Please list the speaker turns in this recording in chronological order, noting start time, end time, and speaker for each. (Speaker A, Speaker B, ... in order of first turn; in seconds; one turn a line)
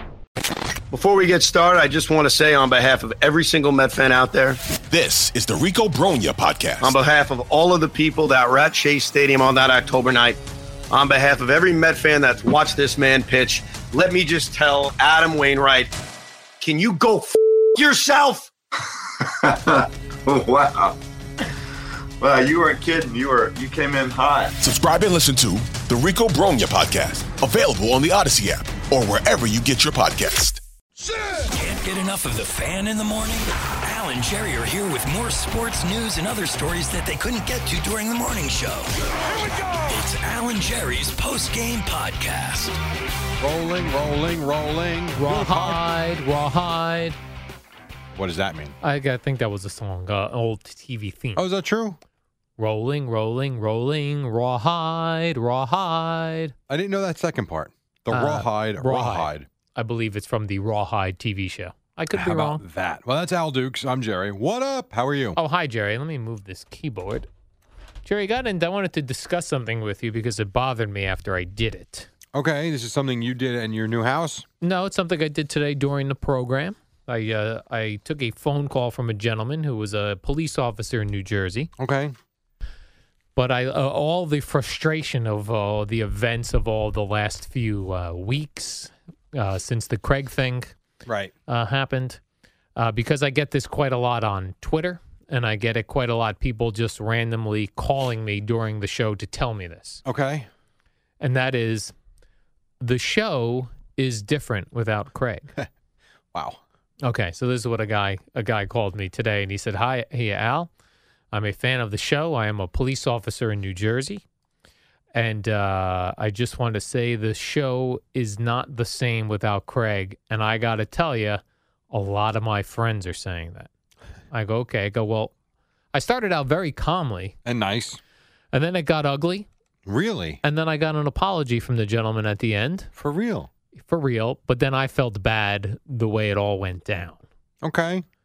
Speaker A: 0.9-4.6
Speaker B: 4.9-7.0
Speaker A: 6.8-10.4
Speaker A: 10.9-15.9
Speaker A: 16.6-18.5
Speaker C: 20.2-20.7
Speaker C: 22.2-24.4
Speaker B: 24.6-30.6
Speaker D: 31.4-42.8
Speaker E: 43.4-45.8
Speaker F: 45.2-47.2
Speaker E: 48.1-48.8
Speaker F: 48.8-51.4
Speaker E: 51.3-52.0
Speaker F: 52.6-56.5
Speaker E: 56.7-59.5
Speaker F: 58.1-62.6
Speaker E: 62.1-65.4
Speaker F: 65.3-67.3
Speaker F: 68.0-72.1
Speaker E: 72.3-74.5
Speaker F: 74.6-81.7
Speaker E: 81.8-82.1
Speaker F: 83.3-90.7
Speaker E: 91.0-91.3
Speaker F: 91.5-92.2
Speaker F: 92.8-100.0
Speaker E: 100.0-100.5
Speaker F: 101.2-101.9
Speaker F: 102.8-105.5
Speaker E: 106.3-106.6
Speaker F: 107.0-110.7
Speaker F: 111.3-114.2
Speaker F: 115.1-123.7
Speaker F: 124.3-125.3
Speaker F: 125.9-127.3
Speaker E: 127.4-128.0
Speaker F: 128.5-129.5
Speaker E: 129.8-130.4
Speaker F: 130.4-132.9
Speaker E: 132.9-133.5
Speaker F: 133.8-137.2
Speaker E: 137.6-138.0